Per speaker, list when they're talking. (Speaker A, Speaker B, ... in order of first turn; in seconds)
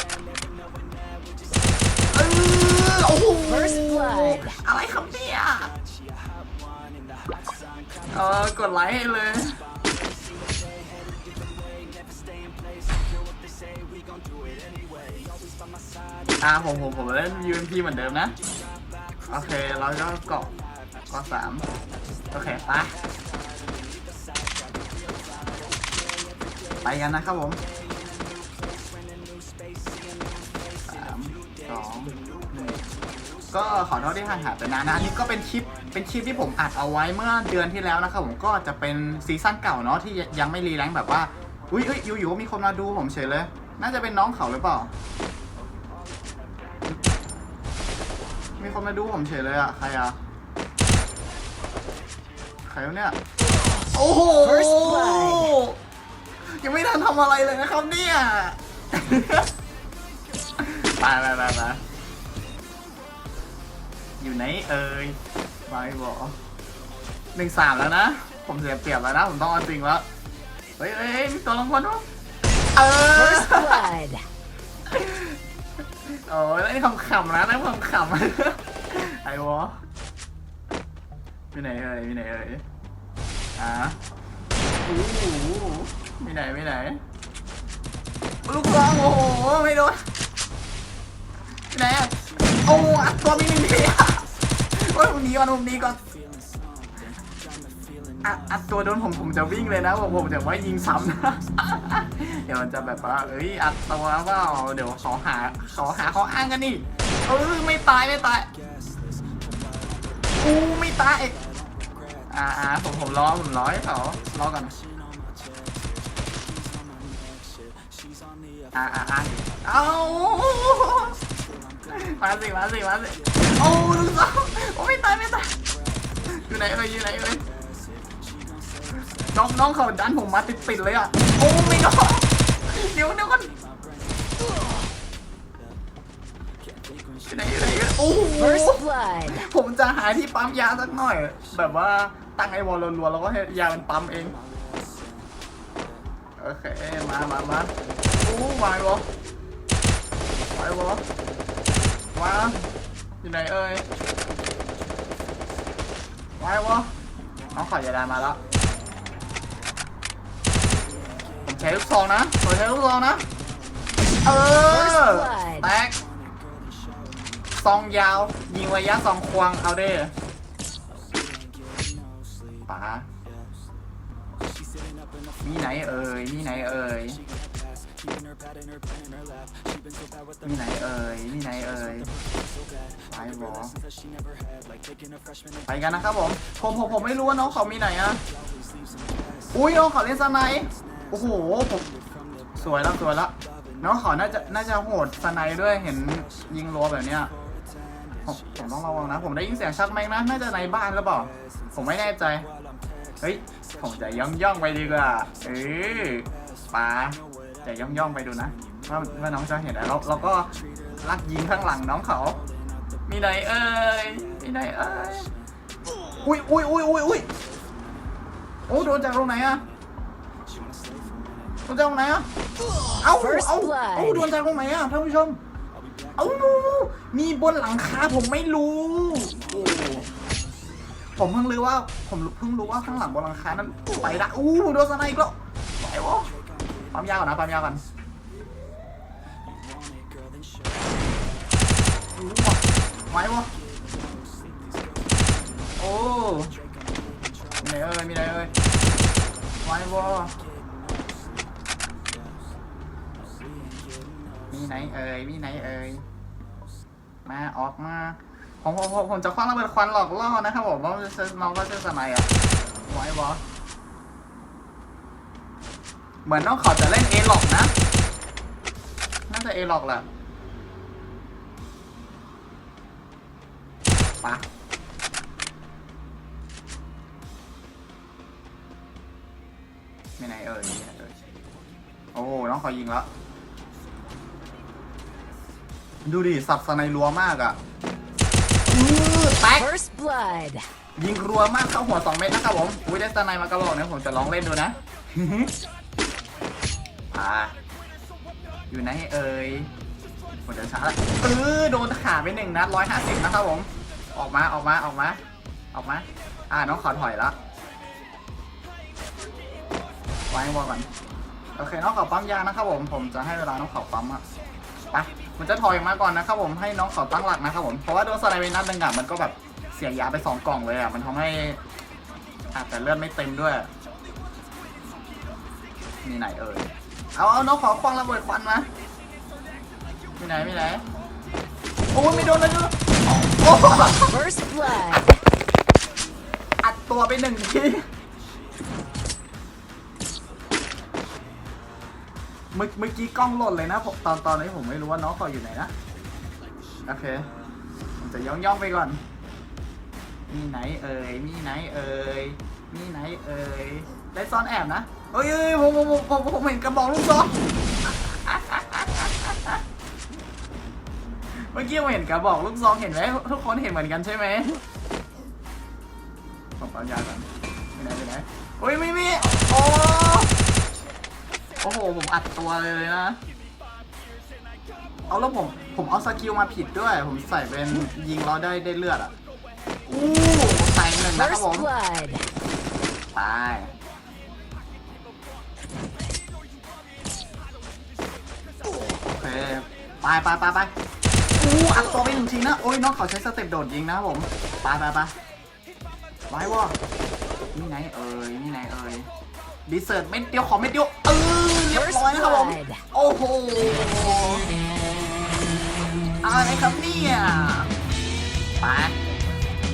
Speaker A: 2.1-5.7, 8.1-9.6, 16.4-18.3, 19.3-20.5, 21.1-21.6, 22.3-23.0, 26.8-27.6, 30.9-32.8, 33.5-44.9, 48.6-50.2, 52.6-53.2, 53.8-55.8, 56.4-59.5, 60.6-61.8, 64.2-66.3, 67.3-70.0, 70.8-72.0, 72.7-73.9, 74.9-75.4, 76.0-79.8, 81.5-82.6, 83.6-84.0, 84.8-87.0, 88.5-90.0, 91.7-96.0, 98.2-108.5, 110.4-111.4, 112.3-114.7, 118.7-121.2, 121.9-125.5, 126.3-127.4, 129.3-133.5, 137.2-144.4, 146.4-149.1, 150.5-151.0, 152.1-152.7, 153.2-153.8, 156.4-156.9, 157.5-158.4, 161.4-163.3, 164.2-166.0, 167.5-170.1, 172.7-173.1, 175.4-177.2, 180.4-182.1, 183.1-183.8, 185.7-188.2, 189.5-191.9, 192.6-197.3, 198.2-202.5, 203.2-212.4, 213.1-215.3, 216.1-217.3, 218.7-219.6, 221.7-222.3, 223.0-225.4, 226.2-230.1, 231.2-236.3, 236.9-237.8, 242.1-243.5, 245.8-246.6, 247.6-248.5, 249.6-250.3, 254.5-256.0, 257.2-263.4, 266.2-267.7, 269.3-270.1, 280.2-281.1, 282.1-283.1, 286.0-287.6, 288.6-289.7, 291.0-295.5, 297.1-297.5, 298.7-299.7, 300.4-305.2, 305.7-307.4, 310.3-310.9, 311.6-314.2, 314.9-321.6, 322.5-323.7, 326.0-328.7, 330.2-330.8, 331.9-334.2, 336.6-337.9, 342.5-345.7, 346.9-347.3, 348.0-349.0, 350.3-359.6, 361.4-364.6, 366.6-370.3, 371.6-373.2, 375.1-379.1, 379.9-381.7, 383.1-383.7, 389.0-390.7, 391.3-395.1, 396.3-396.7, 397.5-399.1, 399.7-404.4, 406.2-407.7, 408.6-409.0
Speaker B: 3.5-4.6, 54.4-55.5, 73.1-74.2, 138.3-139.4, 164.6-165.7, 222.8-224.3, 289.6-290.6, 333.9-335.2, 381.1-382.3, 401.7-402.8